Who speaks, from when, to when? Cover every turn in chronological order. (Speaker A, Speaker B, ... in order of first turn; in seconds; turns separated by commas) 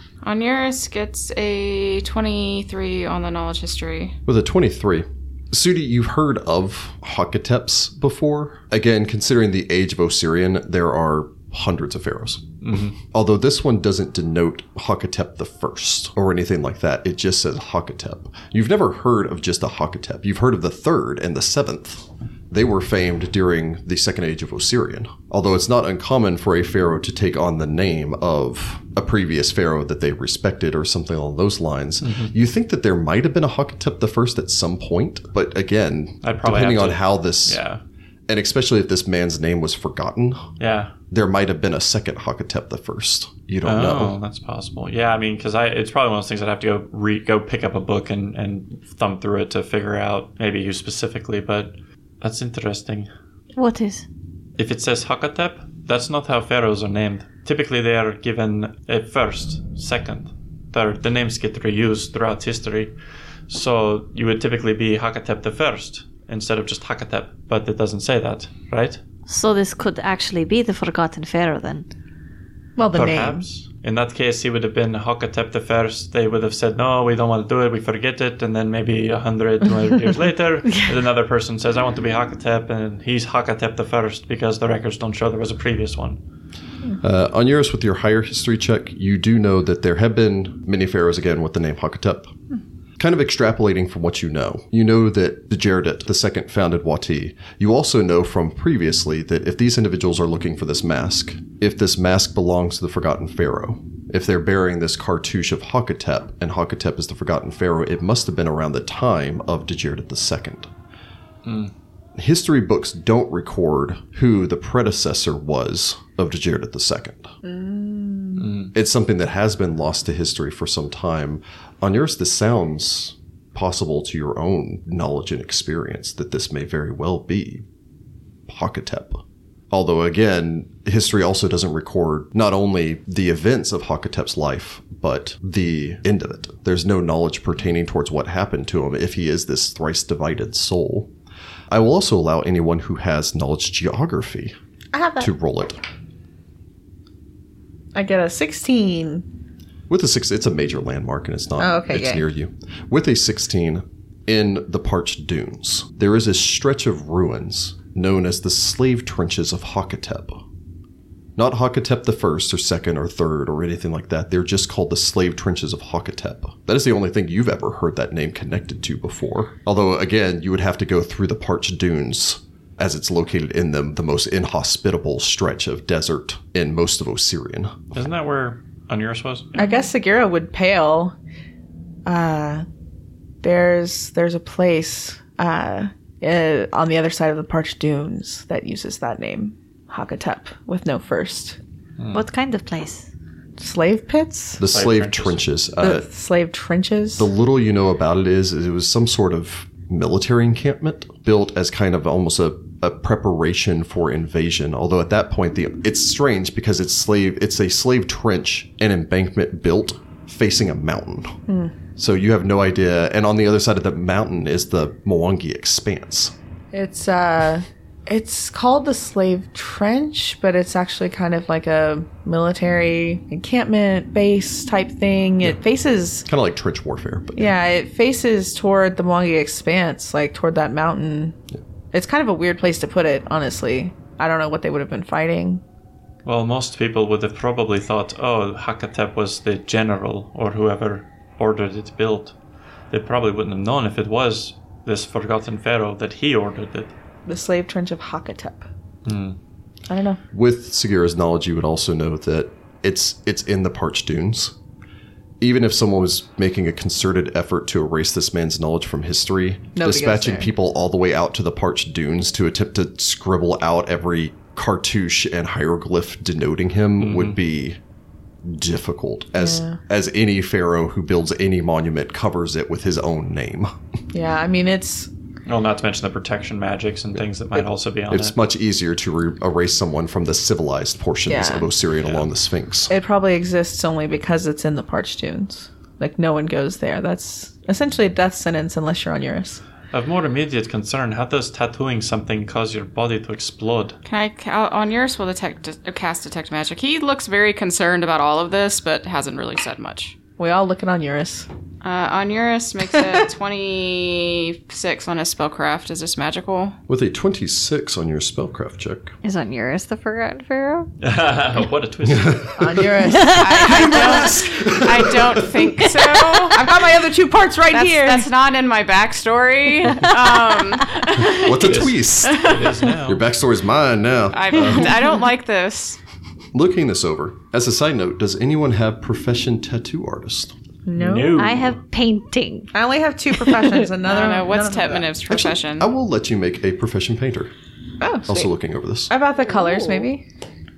Speaker A: 0.2-4.2, Speaker B: 4.3-12.4, Speaker C: 12.6-12.9, Speaker B: 13.1-37.6, Speaker C: 32.0-32.3, Speaker C: 36.2-37.8, Speaker B: 38.3-40.5, Speaker C: 40.6-40.9, Speaker B: 41.1-44.2, Speaker C: 43.6-53.1, Speaker D: 53.5-54.0, Speaker C: 54.6-62.9, Speaker C: 63.5-69.0, Speaker D: 69.3-71.8, Speaker E: 72.8-73.4, Speaker C: 72.9-86.2, Speaker B: 87.0-92.3, Speaker B: 93.0-110.7, Speaker C: 111.4-111.7, Speaker B: 112.2-117.3, Speaker E: 117.4-118.5, Speaker C: 118.3-118.7, Speaker B: 118.7-127.6, Speaker B: 128.5-141.1, Speaker B: 141.7-144.5, Speaker E: 144.9-145.3, Speaker B: 145.2-145.8, Speaker E: 147.9-149.2, Speaker B: 149.9-160.4, Speaker E: 151.6-152.2, Speaker B: 161.4-177.8, Speaker C: 177.9-179.5, Speaker E: 179.6-181.1, Speaker E: 182.1-182.6, Speaker E: 183.4-191.6, Speaker C: 192.0-192.2, Speaker D: 192.1-193.1, Speaker E: 193.6-194.6, Speaker B: 194.6-196.1, Speaker C: 194.7-195.4, Speaker E: 195.8-197.2, Speaker B: 197.2-211.3, Speaker E: 211.5-211.7, Speaker B: 211.9-216.3, Speaker E: 216.7-226.3, Speaker B: 226.3-227.5, Speaker E: 227.3-231.3, Speaker E: 231.9-235.6, Speaker C: 236.2-242.3, Speaker C: 242.9-246.9, Speaker E: 247.2-248.7, Speaker C: 249.0-249.4, Speaker E: 249.9-250.2, Speaker B: 250.3-254.5, Speaker B: 255.4-267.8, Speaker E: 259.8-260.5, Speaker C: 267.0-267.4, Speaker B: 268.4-273.7, Speaker E: 269.4-269.8, Speaker E: 274.1-275.1, Speaker C: 275.4-278.3, Speaker B: 278.1-282.9, Speaker E: 281.3-281.7, Speaker E: 282.9-289.6, Speaker C: 289.9-293.9, Speaker A: 294.1-300.1, Speaker E: 300.4-301.5, Speaker A: 301.8-306.8, Speaker B: 306.9-309.1, Speaker D: 309.2-310.9, Speaker C: 311.0-312.5, Speaker B: 312.1-312.7, Speaker E: 312.6-314.6, Speaker D: 313.1-314.4, Speaker A: 313.3-316.8, Speaker B: 314.4-315.4, Speaker E: 315.6-318.3, Speaker A: 317.7-321.5, Speaker B: 321.2-325.0, Speaker C: 321.4-323.2, Speaker A: 322.3-322.6, Speaker A: 324.3-326.0, Speaker B: 326.5-330.5, Speaker E: 330.9-331.4, Speaker C: 330.9-331.8, Speaker D: 331.3-332.7, Speaker E: 332.7-335.1, Speaker D: 333.3-333.8, Speaker A: 334.0-335.9, Speaker B: 335.3-337.5, Speaker E: 338.0-338.5, Speaker B: 338.3-339.1, Speaker E: 339.1-340.2, Speaker D: 339.5-340.1